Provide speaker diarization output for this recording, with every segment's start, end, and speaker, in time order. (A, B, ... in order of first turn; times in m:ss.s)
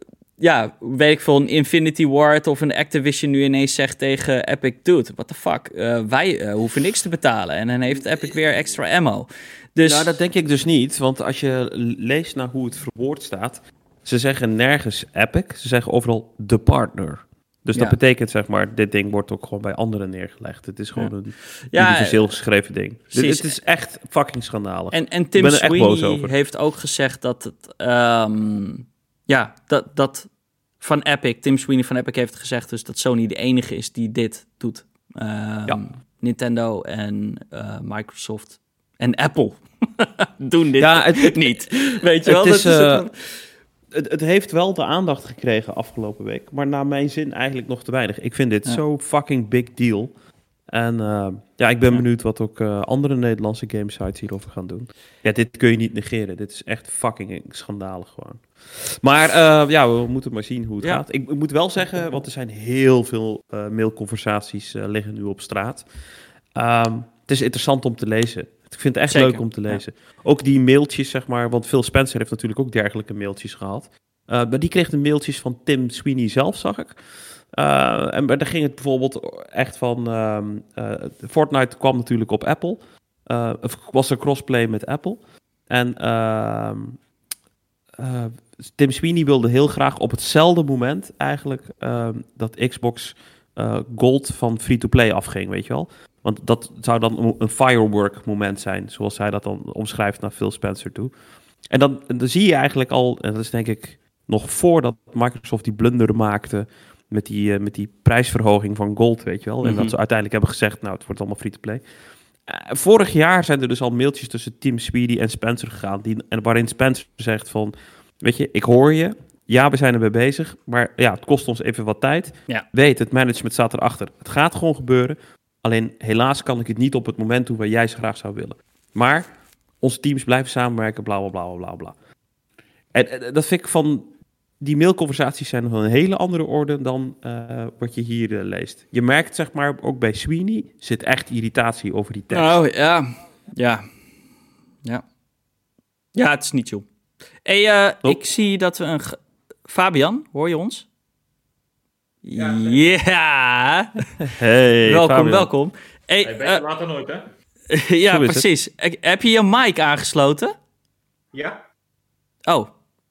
0:00.4-0:10.2 A
0:09.8-0:26.3 B
0:21.7-0:22.4 A
0:23.1-0:23.5 A
0:24.9-0:30.3 A
0:30.8-0:43.4 A
0:40.8-0:43.1 B
0:43.9-0:50.1 B
0:50.7-1:05.9 B
1:06.5-1:27.0 B
1:09.1-1:09.8 A
1:28.0-1:41.1 B
1:41.7-1:51.8 B
1:49.6-1:50.0 A
1:52.5-2:09.3 B
2:09.8-2:12.0 B
2:12.9-2:22.6 B
2:22.3-2:23.9 A
2:26.1-2:26.9 A
2:27.4-2:30.9 A
2:32.2-2:34.2 A
2:32.4-2:32.9 C
2:34.3-2:35.5 B
2:34.8-2:36.6 A
2:36.2-2:37.3 C
2:37.7-2:40.5 A
2:38.1-2:38.5 B
2:41.3-2:41.6 C